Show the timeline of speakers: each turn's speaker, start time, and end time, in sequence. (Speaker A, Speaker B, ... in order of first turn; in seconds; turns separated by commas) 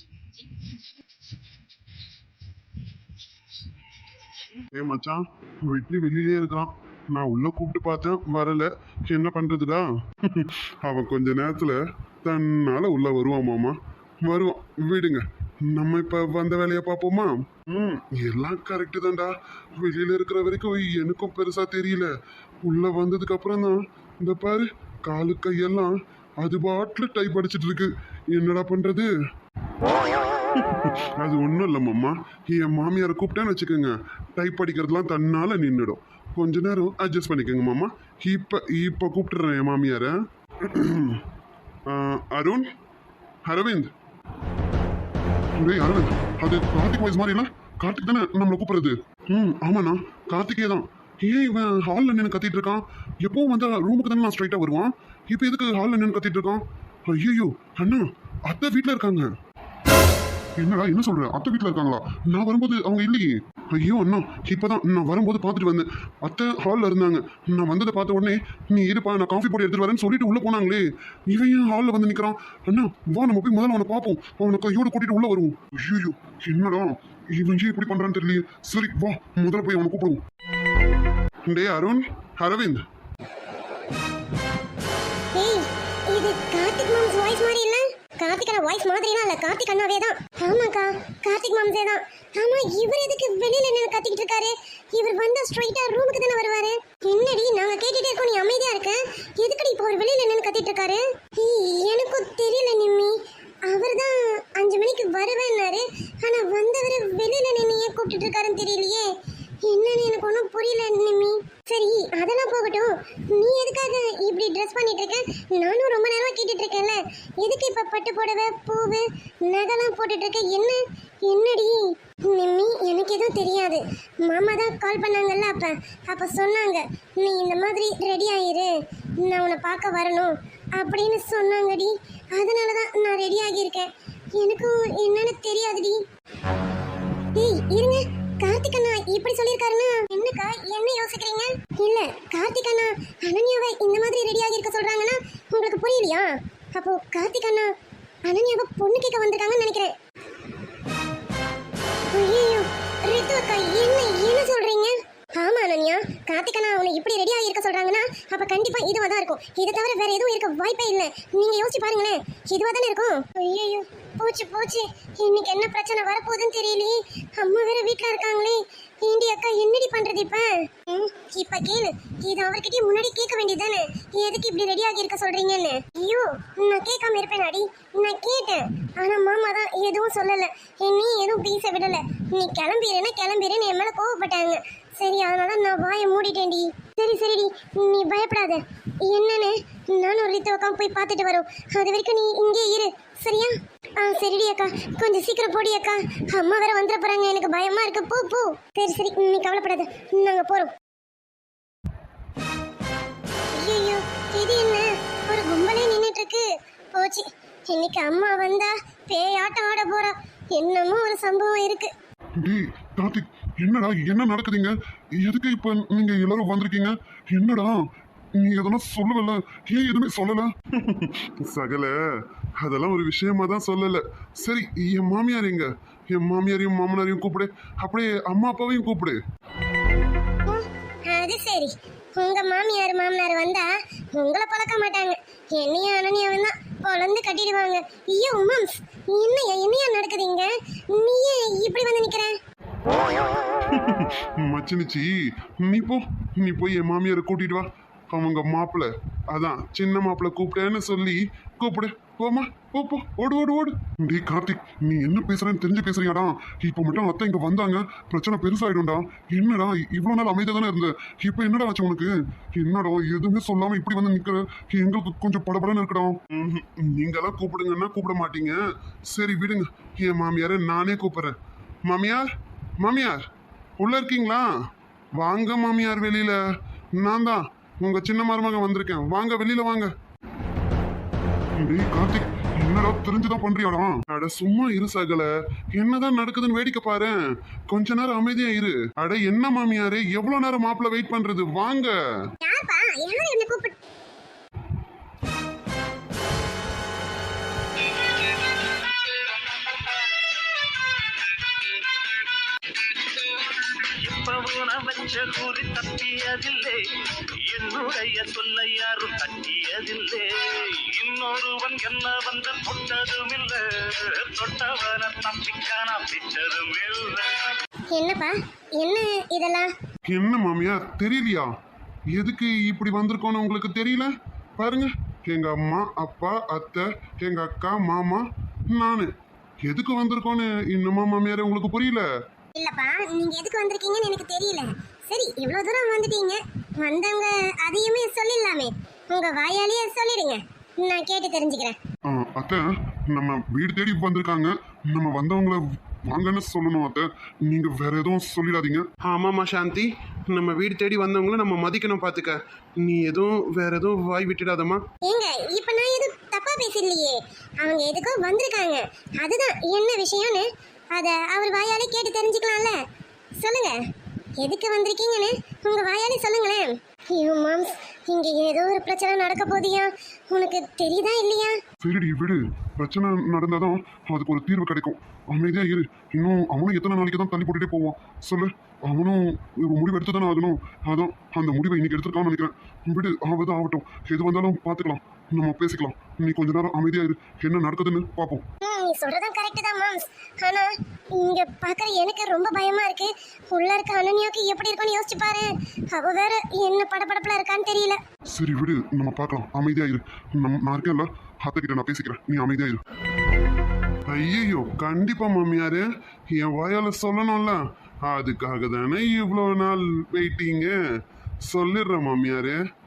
Speaker A: 4.5-22.1, Speaker A: 22.6-29.1, Speaker A: 29.9-41.3, Speaker A: 41.9-42.7, Speaker A: 43.5-43.9, Speaker A: 45.6-59.3, Speaker A: 60.6-80.2, Speaker A: 81.5-82.9, Speaker B: 85.3-109.1, Speaker B: 109.6-136.0, Speaker B: 137.3-147.7, Speaker B: 148.3-149.9, Speaker B: 152.1-200.7, Speaker B: 203.5-211.9, Speaker A: 212.4-222.0, Speaker A: 222.6-229.2, Speaker B: 230.5-242.4, Speaker A: 243.6-273.3, Speaker A: 273.8-274.5, Speaker A: 275.2-276.4, Speaker A: 277.0-279.9, Speaker A: 281.6-292.0, Speaker B: 292.4-293.8, Speaker C: 302.8-317.6, Speaker B: 317.9-319.7, Speaker A: 320.1-321.5, Speaker A: 322.1-329.1, Speaker A: 329.6-332.1, Speaker B: 332.6-341.8, Speaker A: 342.1-348.9, Speaker D: 349.1-354.8, Speaker B: 355.1-362.8, Speaker B: 363.4-363.8, Speaker B: 364.4-371.6, Speaker A: 371.8-388.5, Speaker B: 388.6-398.0, Speaker A: 398.3-402.8, Speaker A: 404.1-410.8, Speaker A: 411.4-412.6